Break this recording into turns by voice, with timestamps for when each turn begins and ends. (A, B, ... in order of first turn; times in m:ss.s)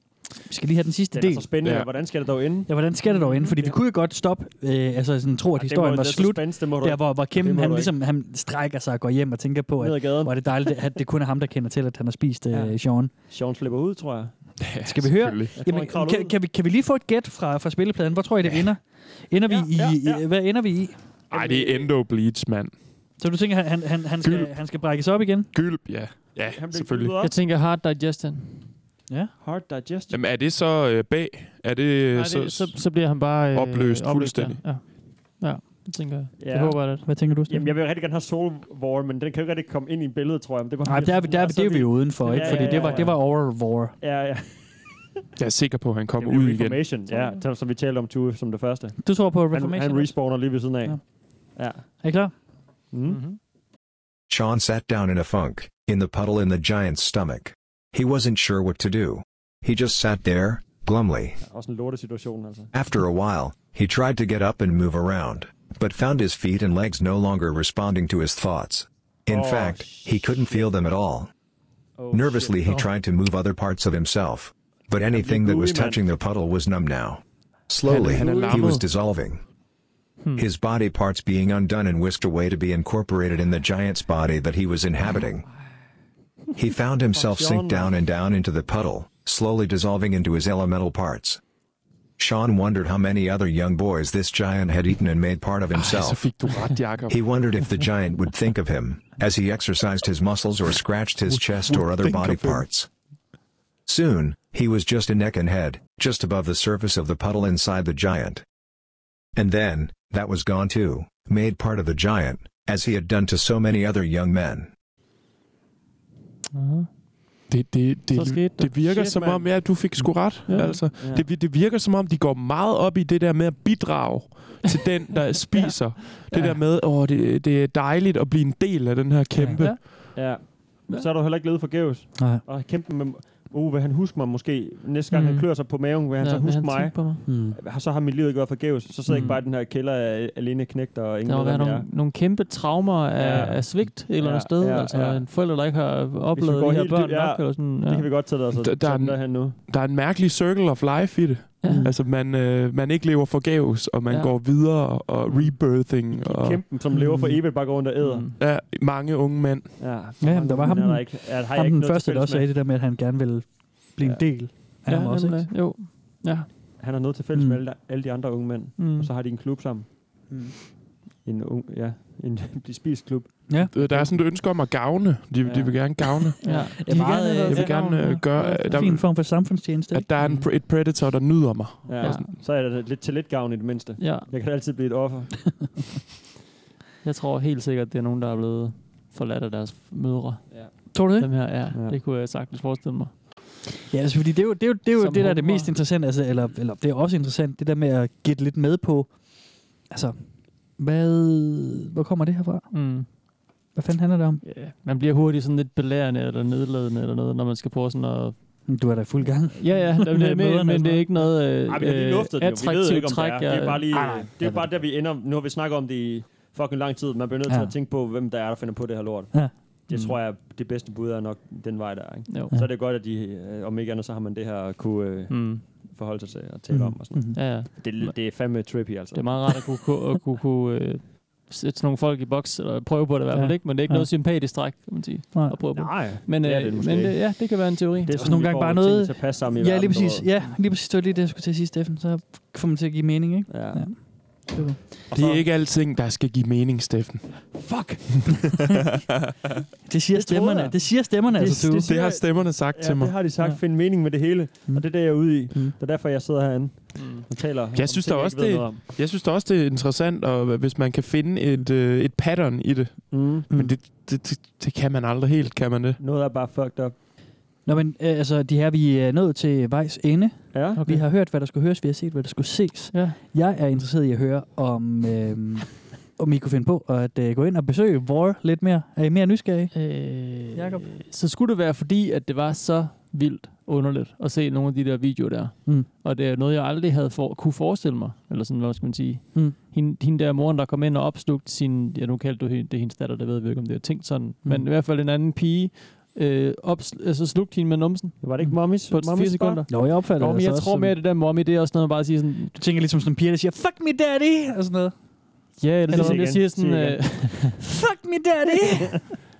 0:00.4-0:01.5 A
0:01.1-0:02.8 B
0:01.6-0:01.9 C
0:02.7-0:13.1 A
0:03.1-0:03.5 D
0:05.6-0:07.9 B
0:09.8-0:10.6 B
0:12.5-0:14.3 B
0:14.6-0:15.5 C
0:14.8-0:21.0 A
0:15.6-0:16.3 B
0:19.4-0:20.3 B
0:21.3-0:21.9 B
0:21.3-0:22.8 C
0:23.2-0:25.5 A
0:24.2-0:24.8 C
0:25.5-0:27.1 C
0:26.5-0:27.4 B
0:27.2-0:28.7 D
0:29.4-0:30.2 B
0:30.1-0:34.6 C
0:32.1-0:37.0 D
0:36.4-0:45.0 B
0:37.0-0:37.8 A
0:40.8-0:44.0 A
0:42.2-0:43.1 D
0:45.4-0:46.8 C
0:46.2-0:52.0 B
0:49.0-0:51.0 A
0:52.0-0:52.3 A
0:52.9-0:53.2 B
0:53.0-0:53.4 D
0:54.3-1:01.4 E
1:01.4-1:02.7 B
1:02.7-1:11.3 E
1:09.3-1:10.7 B
1:12.0-1:12.8 B
1:12.1-1:19.4 E
1:15.1-1:16.0 B
1:17.8-1:18.8 C
1:18.2-1:18.6 D
1:20.3-1:25.4 E
1:26.5-1:31.4 E
1:27.1-1:27.9 B
1:32.2-1:36.3 E
1:35.7-1:37.2 C
1:37.1-1:42.9 E
1:41.3-1:42.6 C
1:43.9-1:48.4 E
1:49.4-1:54.7 E
1:56.5-1:56.9 D
1:57.5-2:09.9 C
1:58.1-1:58.7 D
1:58.8-1:59.7 B
2:00.0-2:00.3 A
2:00.4-2:00.8 D
2:01.0-2:01.2 B
2:05.8-2:06.6 D
2:09.4-2:09.8 A
2:10.2-2:21.9 B
2:12.2-2:12.4 A
2:15.1-2:15.7 D
2:16.2-2:17.2 D
2:17.2-2:17.6 A
2:19.1-2:19.4 D
2:21.2-2:28.1 D
2:23.2-2:25.3 B
2:26.3-2:29.6 B
2:28.5-2:36.6 C
2:31.6-2:31.9 D
2:31.6-2:32.0 A
2:34.1-2:34.4 D
2:35.3-2:38.3 B
2:36.9-2:37.4 A
2:38.0-2:38.4 D
2:38.4-2:39.8 C
2:39.8-2:42.5 B
2:40.2-2:45.5 A
2:44.0-2:44.3 B
2:44.8-2:46.5 D
2:46.8-2:50.3 B
2:47.3-2:47.6 A
2:48.8-2:49.1 D
2:50.3-2:50.5 A
2:51.2-2:54.0 B
2:53.5-2:53.8 A
2:53.7-2:56.4 C
2:55.4-2:56.6 B
2:56.4-2:58.9 D
2:56.4-3:00.1 A
2:57.5-3:02.3 C
3:00.2-3:00.5 D
3:01.9-3:05.4 B
3:02.0-3:02.3 D
3:04.0-3:04.3 D
3:07.0-3:13.1 D
3:10.9-3:11.5 A
3:13.9-3:23.2 A
3:15.0-3:15.7 D
3:22.7-3:23.1 D
3:23.7-3:24.4 A
3:24.4-3:28.7 D
3:28.6-3:31.3 A
3:29.6-3:33.8 D
3:31.7-3:49.6 B
3:33.9-3:34.8 A
3:37.5-3:37.7 A
3:39.9-3:40.2 D
3:42.3-3:42.5 D
3:45.3-3:45.6 D
3:46.7-3:47.7 A
3:47.3-3:48.6 D
3:49.1-3:58.1 D
3:53.3-3:54.1 A
3:55.3-3:55.6 A
3:55.7-4:00.5 B
3:58.1-4:04.8 A
4:03.5-4:04.4 B
4:05.1-4:05.5 B
4:05.1-4:07.7 C
4:07.5-4:08.4 B
4:09.8-4:11.9 A
4:10.1-4:18.8 B
4:11.8-4:13.2 C
4:14.7-4:15.8 A
4:16.9-4:17.2 D
4:17.7-4:26.0 C
4:23.1-4:23.5 B
4:23.5-4:23.8 A
4:26.0-4:27.0 B
4:27.6-4:39.8 A
4:30.5-4:30.8 B
4:30.7-4:31.1 D
4:32.9-4:33.2 D
4:39.7-5:02.6 D
4:40.5-4:40.9 A
4:58.2-4:59.6 B
4:59.7-5:01.0 A
5:02.5-5:05.0 A
5:05.6-5:07.6 D
5:05.9-5:06.4 A
5:05.9-5:07.4 B
5:07.6-5:09.2 A